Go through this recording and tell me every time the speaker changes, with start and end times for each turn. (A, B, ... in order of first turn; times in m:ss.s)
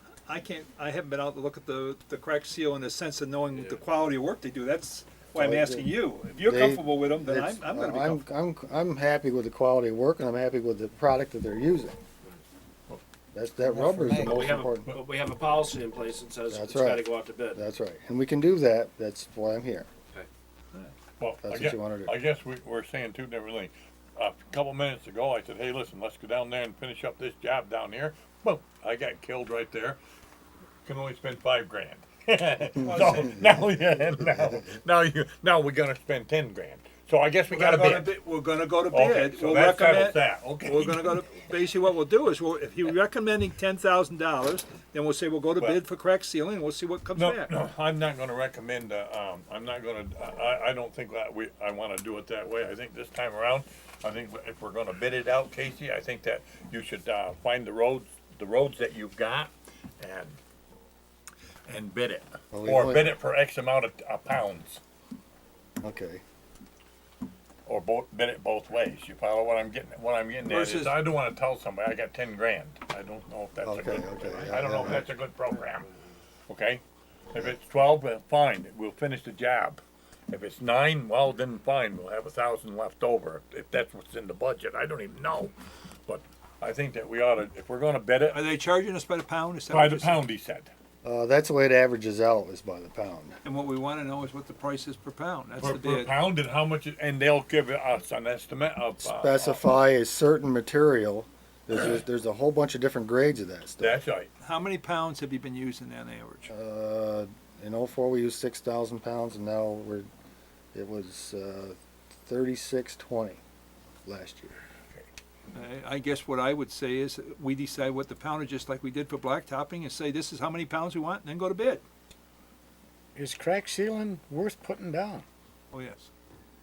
0:00.3-0:08.2 A
0:03.5-0:03.8 B
0:05.4-0:12.0 C
0:13.3-0:14.9 C
0:13.8-0:14.3 D
0:14.1-0:17.6 B
0:16.5-0:19.9 C
0:21.2-0:30.0 E
0:21.4-0:22.1 C
0:30.8-0:38.1 E
0:32.8-0:33.5 A
0:34.2-0:34.6 C
0:37.5-0:47.5 A
0:38.9-0:41.2 E
0:47.1-1:00.4 E
1:01.7-1:04.8 E
1:02.5-1:03.2 C
1:05.8-1:06.2 C
1:07.6-1:15.9 E
1:10.4-1:10.9 A
1:13.6-1:15.1 C
1:14.3-1:14.7 B
1:15.5-1:15.8 B
1:16.5-1:25.5 E
1:26.1-1:28.4 E
1:28.3-1:30.3 A
1:29.7-1:30.7 E
1:31.0-1:33.4 C
1:33.4-1:36.1 A
1:35.6-1:39.6 E
1:39.0-1:44.0 C
1:43.8-1:44.3 E
1:44.4-1:46.5 A
1:46.5-1:50.1 C
1:50.7-1:53.4 C
1:54.0-1:54.6 C
1:55.5-2:01.8 A
2:03.1-2:05.2 D
2:05.7-2:06.1 A